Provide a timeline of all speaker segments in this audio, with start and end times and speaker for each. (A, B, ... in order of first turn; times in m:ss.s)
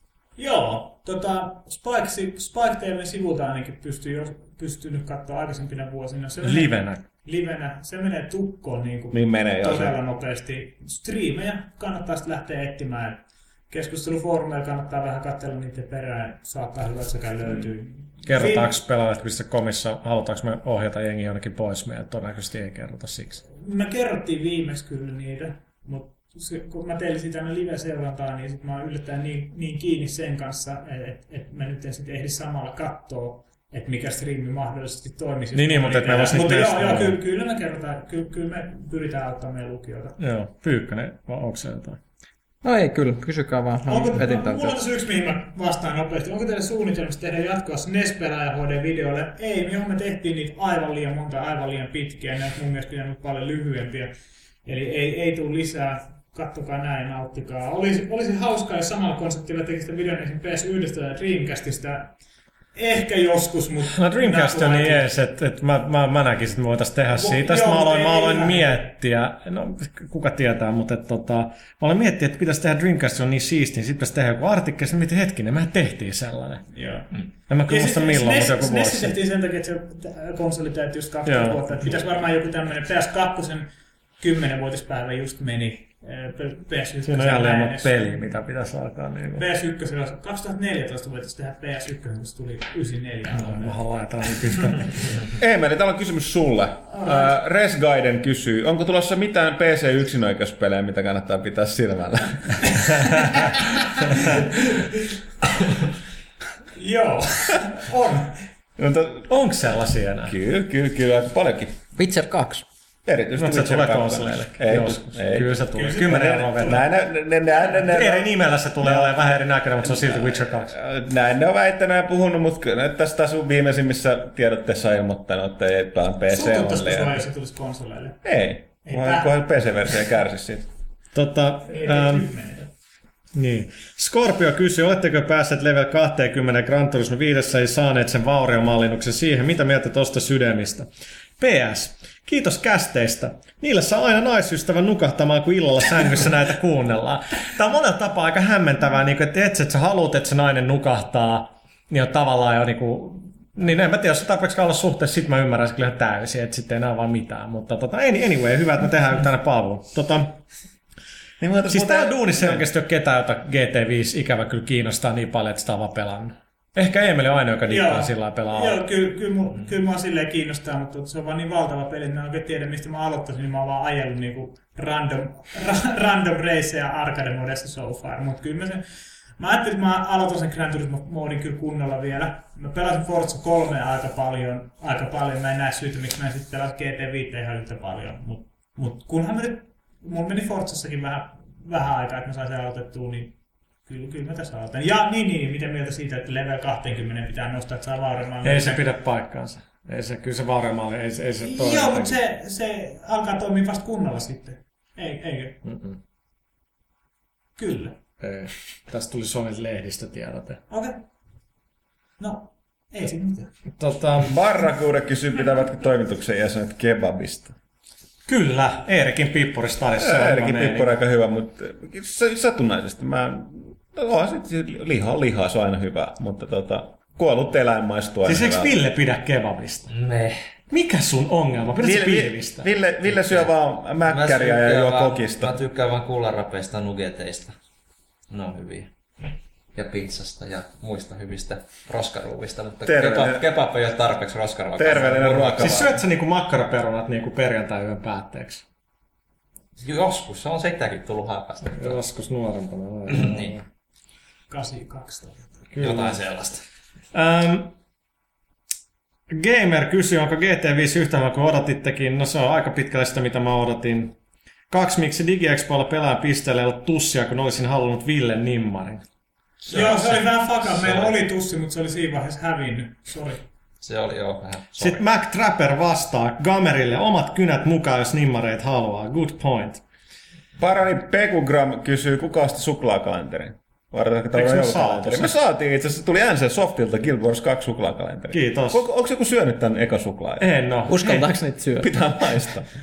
0:00.4-0:18.7 A
0:06.4-0:07.0 B
0:09.1-0:10.0 C
0:18.2-0:23.4 B
0:23.5-0:40.2 A
0:35.5-0:37.2 B
0:40.2-0:42.0 B
0:42.6-0:44.7 D
0:43.9-0:54.1 A
0:54.6-1:02.1 A
1:02.7-1:05.1 A
1:03.9-1:16.6 B
1:07.2-1:08.8 A
1:16.7-1:17.1 A
1:17.5-1:19.1 B
1:17.7-1:23.7 A
1:21.2-1:21.8 B
1:24.2-1:28.3 A
1:27.0-1:29.4 B
1:29.4-1:33.8 A
1:33.3-1:35.1 B
1:34.5-1:34.7 A
1:35.3-1:43.6 C
1:36.9-1:37.3 A
1:46.7-1:48.4 A
1:48.8-1:49.5 C
1:49.3-1:50.3 B
1:50.2-1:51.8 C
1:52.0-1:52.6 D
1:53.0-2:07.2 C
1:53.4-1:56.8 B
1:55.7-1:56.8 A
1:57.8-2:00.7 B
2:06.3-2:08.2 A
2:08.2-2:10.7 C
2:08.8-2:09.3 A
2:11.1-2:12.3 B
2:11.7-2:12.7 A
2:13.3-2:40.4 B
2:41.4-2:42.6 C
2:41.7-2:48.8 B
2:47.7-2:58.8 A
2:59.4-3:13.3 A
3:13.8-3:18.9 A
3:18.4-3:22.1 B
3:21.4-3:25.6 A
3:25.6-3:26.0 B
3:27.6-3:28.0 A
3:28.2-3:30.6 B
3:30.7-3:31.0 A
3:32.2-3:33.5 A
3:33.8-3:34.3 B
3:34.2-3:37.5 C
3:38.3-3:40.9 B
3:40.0-3:48.8 C
3:48.2-3:49.9 B
3:49.9-3:50.4 E
3:50.7-3:52.7 B
3:51.8-3:55.6 C
3:54.0-3:57.5 E
3:58.3-3:58.9 E
3:59.7-4:05.9 E
4:02.8-4:03.4 C
4:04.8-4:05.9 C
4:05.6-4:08.6 B
4:09.8-4:12.0 E
4:11.7-4:13.6 B
4:13.1-4:13.6 E
4:14.5-4:15.6 A
4:15.7-4:16.2 B
4:15.8-4:16.6 E
4:17.1-4:17.7 B
4:19.3-4:24.1 B
4:24.7-4:29.0 B
4:29.6-4:30.2 E
4:29.7-4:33.4 A
4:30.7-4:31.1 E
4:33.8-4:35.0 E
4:34.8-4:39.8 B
4:40.6-4:50.5 C
4:44.3-4:45.4 B
4:48.3-4:48.8 B
4:50.4-4:51.3 B
4:50.9-4:52.0 D
4:51.8-4:52.7 C